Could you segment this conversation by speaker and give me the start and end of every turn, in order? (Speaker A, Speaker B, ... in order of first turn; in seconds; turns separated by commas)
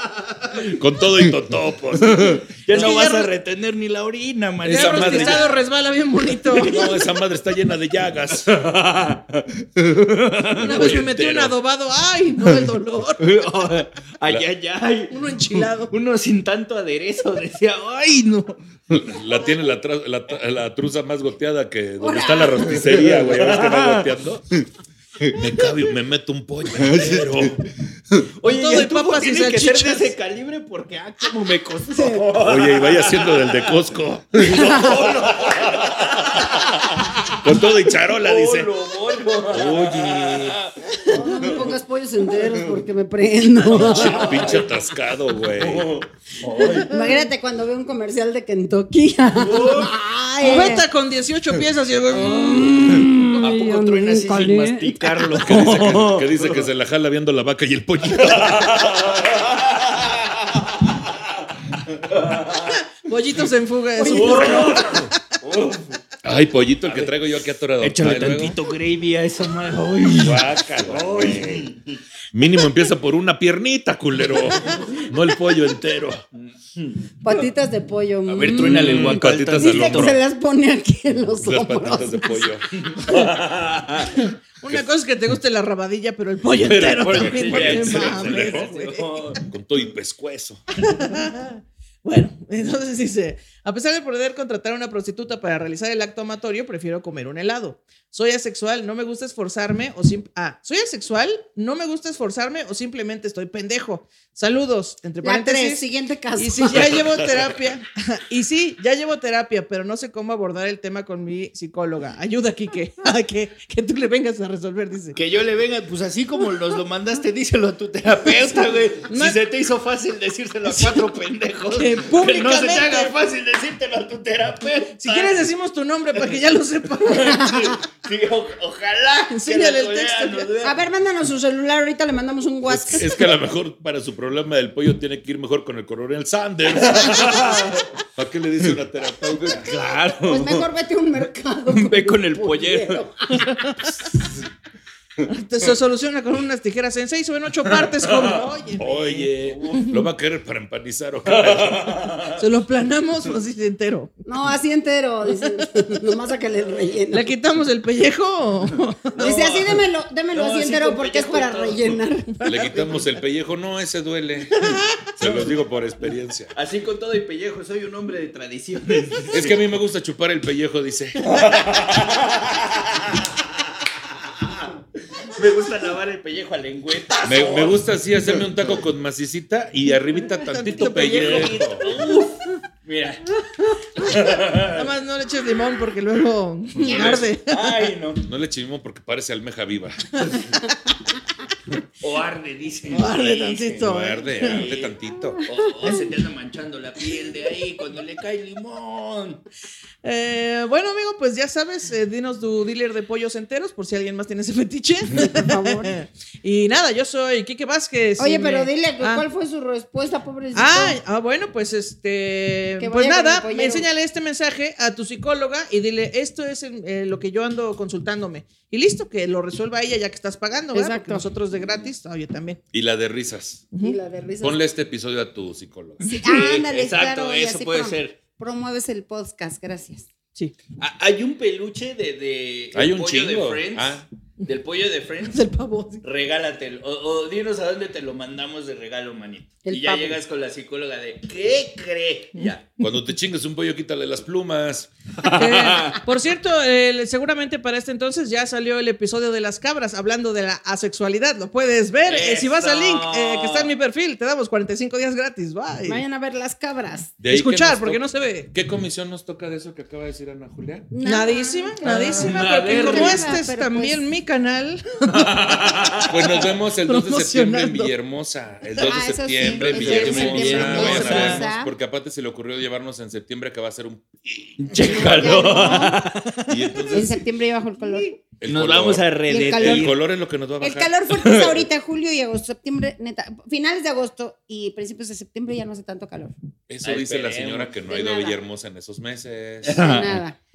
Speaker A: 0.5-3.0, Speaker B: 2.0-5.6, Speaker C: 2.7-3.3, Speaker A: 4.6-5.5, Speaker C: 4.7-6.9, Speaker B: 6.5-7.1, Speaker A: 6.5-8.5, Speaker B: 8.4-11.1, Speaker A: 10.5-11.6, Speaker C: 10.5-13.3, Speaker B: 13.2-18.6, Speaker C: 15.1-15.9, Speaker A: 18.9-24.4, Speaker D: 22.0-22.7, Speaker B: 22.6-24.6, Speaker A: 25.3-27.6, Speaker B: 26.8-37.3, Speaker C: 28.4-30.1, Speaker D: 32.0-32.2, Speaker A: 32.4-38.7, Speaker D: 34.5-35.0, Speaker B: 38.1-41.8, Speaker A: 39.5-40.6, Speaker D: 41.0-44.5, Speaker B: 42.4-42.8, Speaker B: 43.6-47.2, Speaker A: 43.7-45.9, Speaker D: 46.5-50.9, Speaker B: 49.3-50.0, Speaker C: 50.4-52.8, Speaker D: 52.1-55.3, Speaker B: 52.9-56.7, Speaker A: 55.4-59.2, Speaker B: 58.3-62.8, Speaker C: 63.0-65.1, Speaker B: 64.0-66.0, Speaker A: 64.3-65.1, Speaker A: 66.2-68.6, Speaker B: 66.8-67.2, Speaker B: 67.8-72.0, Speaker A: 70.2-71.7, Speaker A: 72.3-76.2, Speaker B: 76.3-77.0, Speaker D: 77.2-82.6, Speaker B: 78.3-80.2, Speaker A: 78.4-80.2, Speaker A: 81.3-83.4, Speaker B: 82.8-84.2, Speaker C: 84.2-89.4, Speaker A: 86.6-88.8, Speaker B: 86.8-89.4, Speaker A: 89.5-90.6, Speaker C: 90.8-105.8, Speaker D: 105.2-107.0, Speaker C: 106.4-115.2, Speaker A: 106.7-107.5, Speaker B: 115.1-125.5, Speaker C: 119.1-119.4, Speaker C: 120.7-121.0, Speaker C: 121.7-123.1, Speaker C: 125.0-127.5, Speaker B: 127.0-130.8, Speaker D: 127.3-127.8, Speaker C: 129.3-130.5, Speaker D: 130.6-133.1, Speaker A: 132.7-139.8, Speaker B: 136.8-137.8, Speaker B: 139.4-140.7, Speaker D: 140.1-143.6, Speaker B: 141.7-143.0, Speaker C: 143.4-144.0, Speaker C: 145.3-149.2, Speaker B: 147.7-148.4, Speaker A: 148.8-152.2, Speaker B: 149.2-150.0, Speaker B: 151.3-152.3, Speaker C: 152.3-154.1, Speaker D: 154.2-157.3, Speaker C: 155.6-155.8, Speaker C: 157.1-159.3, Speaker B: 159.1-162.0, Speaker D: 159.2-162.4, Speaker C: 162.4-163.1, Speaker A: 162.4-164.6, Speaker A: 165.2-166.5, Speaker B: 165.2-165.6, Speaker B: 166.5-169.6, Speaker A: 169.3-171.2, Speaker B: 171.2-173.7, Speaker B: 174.4-178.4, Speaker A: 177.2-181.9, Speaker C: 180.3-182.1, Speaker B: 181.0-183.4, Speaker C: 183.7-187.9, Speaker B: 184.0-184.9, Speaker B: 186.8-188.2, Speaker A: 188.2-190.3, Speaker B: 192.0-194.9, Speaker C: 192.9-194.7, Speaker A: 193.8-195.4, Speaker B: 195.4-199.4, Speaker C: 195.8-196.1, Speaker C: 200.0-209.2, Speaker D: 205.1-205.9, Speaker D: 208.2-211.0, Speaker C: 210.5-222.6, Speaker D: 212.8-213.9, Speaker D: 220.7-221.3, Speaker A: 222.7-223.7, Speaker D: 223.8-224.6, Speaker A: 224.4-226.2, Speaker D: 226.1-230.1, Speaker B: 226.1-228.2, Speaker B: 230.8-235.4, Speaker A: 232.7-234.1, Speaker C: 235.3-236.0, Speaker B: 236.0-242.7, Speaker D: 239.6-240.2, Speaker C: 242.4-242.9, Speaker A: 242.8-245.4, Speaker B: 245.2-246.0, Speaker C: 245.3-256.0, Speaker B: 252.0-253.7, Speaker D: 255.8-257.1, Speaker A: 257.2-260.9, Speaker C: 257.3-258.5, Speaker D: 260.9-264.0, Speaker C: 261.0-265.8, Speaker B: 261.8-263.3, Speaker B: 265.1-266.3, Speaker A: 266.1-274.7, Speaker C: 266.9-267.9, Speaker D: 268.8-271.7, Speaker B: 269.5-271.3, Speaker C: 269.9-271.4, Speaker B: 274.6-276.4, Speaker D: 274.8-276.0, Speaker C: 276.3-277.1, Speaker A: 276.5-277.2, Speaker D: 276.9-278.2, Speaker A: 278.4-280.9, Speaker B: 278.4-280.0, Speaker D: 279.3-279.9, Speaker D: 280.6-286.3, Speaker B: 281.2-281.6, Speaker A: 286.7-290.0, Speaker B: 286.8-287.7, Speaker D: 287.9-288.4, Speaker B: 289.6-290.2, Speaker D: 289.7-290.4